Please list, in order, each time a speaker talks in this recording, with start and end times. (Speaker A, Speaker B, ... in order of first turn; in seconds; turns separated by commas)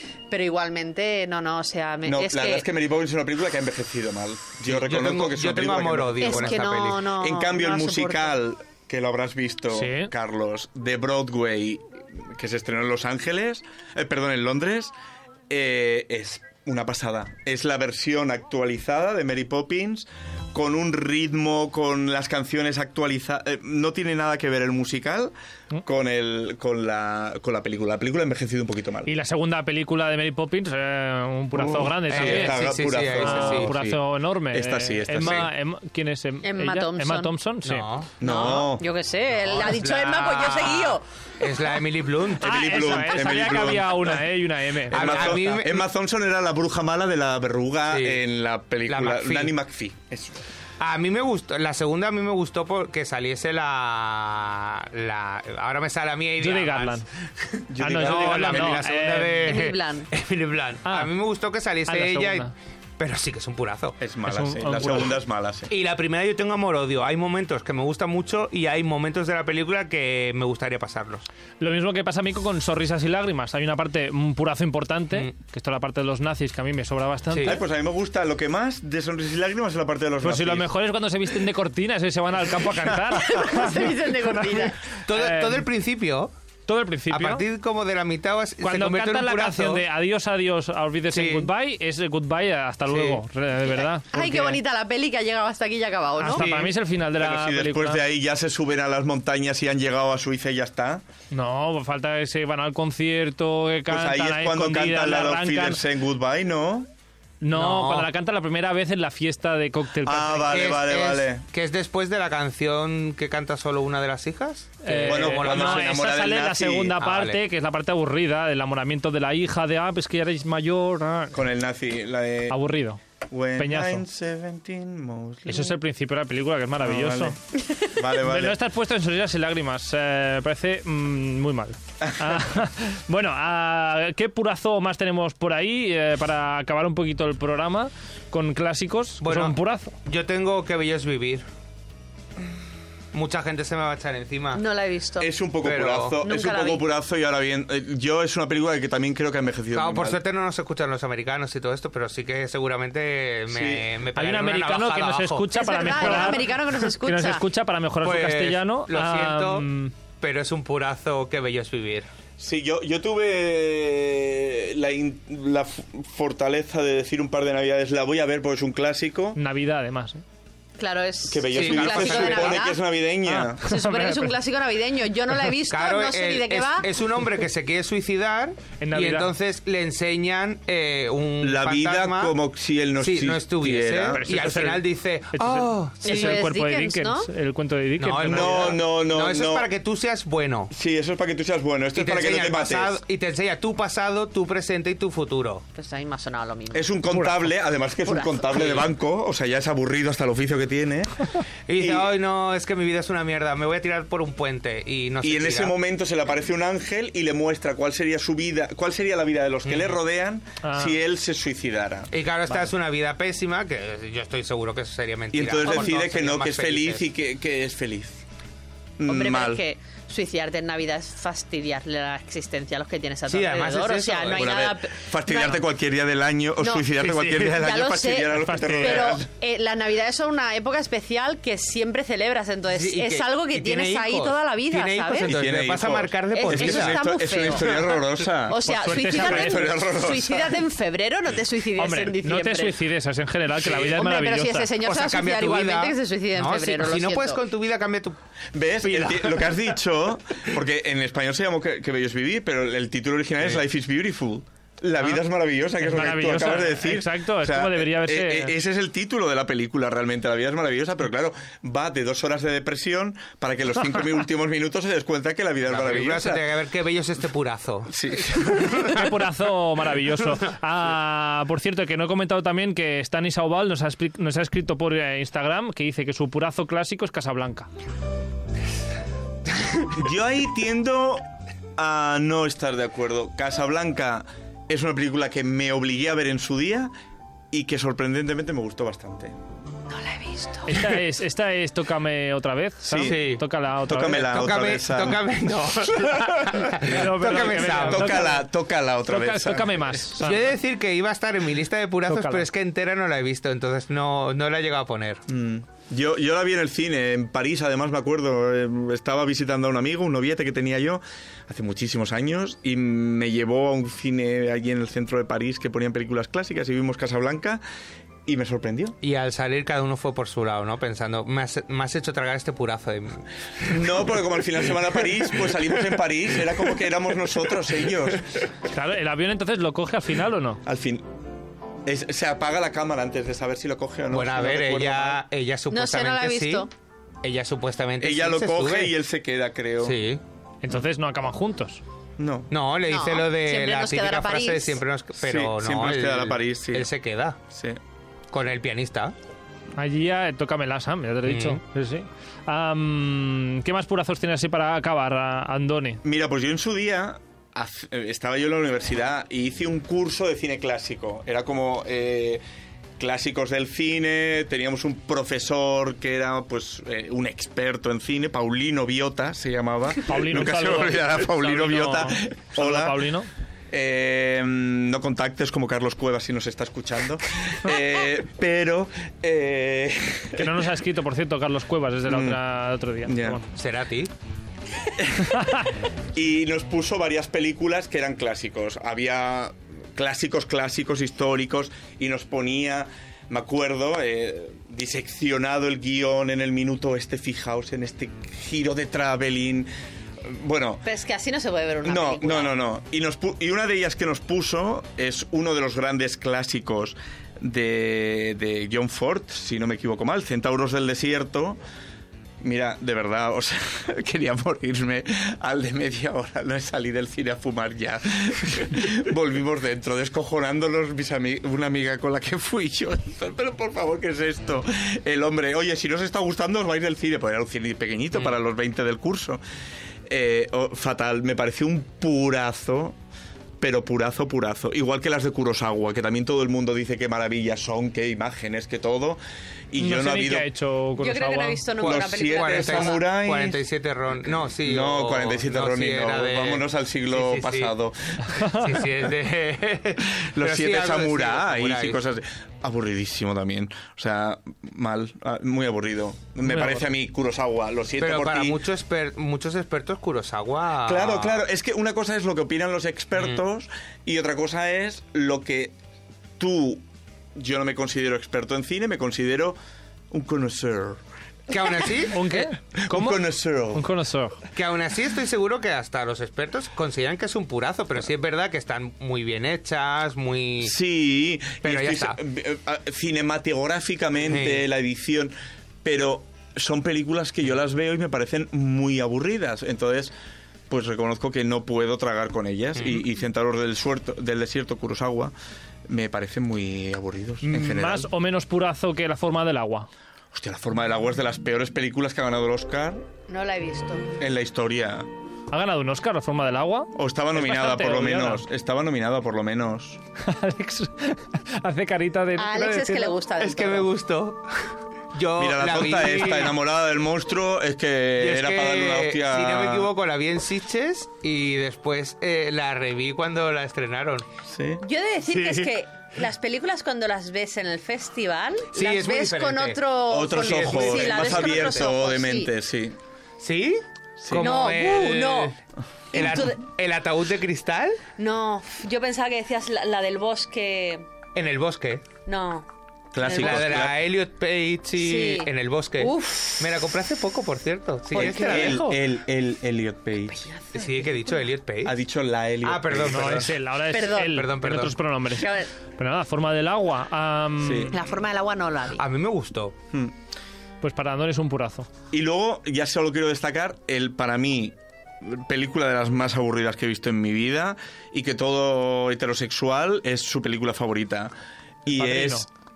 Speaker A: 0.3-2.6, Speaker B: 2.0-14.9, Speaker C: 4.6-7.1, Speaker A: 6.2-8.3, Speaker D: 9.7-10.1, Speaker B: 15.5-29.1, Speaker D: 29.1-37.9, Speaker B: 31.6-35.5, Speaker C: 32.1-33.7, Speaker A: 36.4-37.3, Speaker C: 37.6-38.1, Speaker B: 38.2-38.9, Speaker A: 38.2-41.0, Speaker C: 39.4-43.0, Speaker B: 42.4-44.2, Speaker D: 42.4-45.6, Speaker C: 44.9-45.9, Speaker B: 44.9-50.4, Speaker C: 47.9-48.2, Speaker C: 48.9-49.5, Speaker C: 50.8-64.0, Speaker D: 56.4-57.0, Speaker B: 57.7-58.9, Speaker D: 57.8-59.5, Speaker A: 59.4-60.1, Speaker D: 60.9-61.1, Speaker D: 61.9-62.5, Speaker B: 64.0-65.7, Speaker D: 64.3-65.2, Speaker C: 65.7-71.3, Speaker D: 71.6-77.6, Speaker B: 77.4-80.7, Speaker D: 80.2-85.6, Speaker A: 83.1-84.8, Speaker C: 85.0-86.3, Speaker D: 86.7-87.5, Speaker C: 87.1-89.8, Speaker D: 88.6-94.6, Speaker C: 91.1-91.5, Speaker C: 92.9-93.2, Speaker A: 94.1-96.5, Speaker D: 96.2-98.0, Speaker C: 96.2-96.7, Speaker B: 97.2-101.0, Speaker D: 101.3-105.8, Speaker B: 103.9-106.9, Speaker D: 107.4-110.6, Speaker C: 107.5-108.1, Speaker B: 110.0-111.5, Speaker C: 110.5-116.0, Speaker D: 114.8-121.4, Speaker B: 115.0-117.0, Speaker C: 117.0-117.4, Speaker B: 121.3-122.6, Speaker D: 122.5-123.0, Speaker B: 123.3-125.8, Speaker D: 123.6-124.0, Speaker D: 125.5-127.4, Speaker B: 126.8-128.6, Speaker D: 128.2-139.9, Speaker B: 132.0-132.4, Speaker C: 139.2-141.4, Speaker C: 143.1-144.6, Speaker A: 144.5-145.3, Speaker B: 145.2-150.2, Speaker C: 145.6-146.2, Speaker A: 146.2-146.8, Speaker C: 149.7-156.5, Speaker B: 153.5-153.9, Speaker D: 154.2-159.9, Speaker A: 155.5-157.4, Speaker C: 158.0-159.7, Speaker C: 160.2-162.1, Speaker B: 162.4-169.4, Speaker D: 169.4-170.2, Speaker A: 170.8-172.8, Speaker B: 171.3-173.7, Speaker C: 171.5-172.6, Speaker D: 173.3-174.3, Speaker A: 173.6-176.9, Speaker C: 175.7-182.4, Speaker D: 178.8-179.3, Speaker B: 181.4-184.6, Speaker C: 183.0-186.4, Speaker D: 184.1-188.8, Speaker A: 186.1-187.3, Speaker C: 188.0-190.7, Speaker B: 188.2-189.7, Speaker B: 190.7-193.0, Speaker C: 191.9-195.6, Speaker A: 195.8-197.0, Speaker B: 196.7-201.3, Speaker D: 197.1-197.4, Speaker A: 198.0-198.8, Speaker C: 198.5-198.8, Speaker C: 201.7-205.8, Speaker B: 201.8-202.1, Speaker B: 205.2-212.1, Speaker C: 209.7-210.0, Speaker D: 210.6-211.0, Speaker C: 212.1-217.0, Speaker B: 215.3-218.2, Speaker A: 215.7-215.9, Speaker B: 219.0-219.6, Speaker A: 219.1-225.6, Speaker C: 223.3-224.7, Speaker B: 224.3-229.3, Speaker A: 226.6-235.3, Speaker C: 227.0-227.5, Speaker D: 228.4-229.2, Speaker C: 232.7-238.1, Speaker B: 235.3-240.6, Speaker A: 236.3-237.7, Speaker A: 238.4-242.8, Speaker D: 238.6-239.7, Speaker D: 241.8-244.7, Speaker A: 243.6-247.4, Speaker C: 243.7-244.0, Speaker C: 244.8-248.2, Speaker B: 248.5-266.5, Speaker C: 248.8-249.7, Speaker D: 255.8-258.6, Speaker C: 265.7-269.0, Speaker B: 267.9-268.9, Speaker D: 268.7-277.7, Speaker C: 270.2-270.5, Speaker B: 279.9-281.2, Speaker B: 281.8-286.9, Speaker B: 287.5-289.3, Speaker A: 289.9-290.8, Speaker D: 290.7-294.5, Speaker B: 292.8-293.2, Speaker C: 293.0-293.4, Speaker B: 293.9-295.3, Speaker C: 294.1-298.3, Speaker B: 295.9-296.7, Speaker D: 296.6-298.4, Speaker B: 297.2-300.1, Speaker D: 299.1-300.5, Speaker C: 300.2-305.2, Speaker D: 302.1-302.5, Speaker B: 305.3-317.6, Speaker B: 318.3-319.0, Speaker C: 319.0-324.9, Speaker B: 323.7-328.4, Speaker C: 325.4-325.7, Speaker D: 328.6-330.6, Speaker B: 330.6-331.1, Speaker B: 331.9-335.2, Speaker C: 334.1-336.7, Speaker A: 335.7-336.7, Speaker C: 337.2-338.9, Speaker B: 338.0-340.0, Speaker C: 339.8-340.2, Speaker D: 340.6-341.8, Speaker B: 342.2-342.5, Speaker C: 342.5-347.4, Speaker A: 342.9-344.8, Speaker B: 345.2-346.9, Speaker B: 347.5-347.8, Speaker C: 348.3-349.1, Speaker D: 349.8-356.0, Speaker C: 351.3-351.6, Speaker B: 356.0-362.4, Speaker B: 363.0-373.1, Speaker D: 370.1-373.3, Speaker B: 373.7-380.7, Speaker D: 380.4-383.4, Speaker B: 382.1-382.4, Speaker B: 383.1-383.4, Speaker C: 383.5-384.1, Speaker B: 384.9-399.7, Speaker D: 385.2-385.7, Speaker B: 400.2-400.9, Speaker A: 400.9-402.5, Speaker B: 401.8-411.6, Speaker B: 412.4-429.4, Speaker B: 430.1-433.0, Speaker B: 433.6-439.2, Speaker B: 439.7-440.5, Speaker D: 439.8-441.6, Speaker A: 441.0-443.0, Speaker C: 441.8-447.7, Speaker B: 441.8-443.6, Speaker B: 444.6-448.4, Speaker D: 448.3-448.6, Speaker C: 448.4-452.0, Speaker B: 450.3-458.6, Speaker D: 456.4-456.8, Speaker C: 458.0-461.4, Speaker B: 460.9-465.7, Speaker B: 466.4-466.8, Speaker B: 467.4-469.6, Speaker B: 470.1-471.0, Speaker C: 471.5-472.3, Speaker D: 472.1-473.2, Speaker B: 472.3-473.9, Speaker D: 473.7-474.4, Speaker C: 474.6-480.8, Speaker B: 480.6-485.3, Speaker C: 481.6-482.2, Speaker C: 484.3-484.6, Speaker B: 485.8-490.1, Speaker B: 490.7-495.3, Speaker B: 495.9-498.1, Speaker D: 497.4-499.9, Speaker B: 500.3-503.1, Speaker A: 503.3-504.1, Speaker B: 504.2-505.1, Speaker D: 505.5-508.4, Speaker B: 506.9-510.0, Speaker D: 510.2-513.2, Speaker A: 512.4-513.9, Speaker C: 513.4-516.6, Speaker B: 515.4-519.9, Speaker C: 518.2-524.3, Speaker B: 524.5-524.8, Speaker A: 524.8-532.5, Speaker C: 525.3-525.7, Speaker C: 528.7-531.9, Speaker B: 530.1-533.0, Speaker C: 533.4-535.5, Speaker B: 534.2-534.6, Speaker A: 534.4-535.5, Speaker A: 536.1-536.6, Speaker C: 536.1-538.0, Speaker B: 536.1-536.5, Speaker A: 538.2-541.1, Speaker C: 541.4-542.0, Speaker A: 542.3-542.7, Speaker B: 543.1-544.0, Speaker A: 543.2-543.9, Speaker C: 543.2-549.0, Speaker A: 545.0-546.7, Speaker A: 548.1-548.9, Speaker B: 548.1-550.4, Speaker A: 550.3-550.9, Speaker C: 550.7-552.0, Speaker B: 551.9-553.5, Speaker C: 552.6-555.0, Speaker D: 553.0-558.0, Speaker A: 553.9-554.4, Speaker A: 555.3-555.7, Speaker B: 557.6-558.0, Speaker A: 557.9-559.0, Speaker C: 559.0-559.8, Speaker D: 560.8-561.9, Speaker B: 562.1-571.3, Speaker D: 571.9-572.5, Speaker B: 571.9-572.5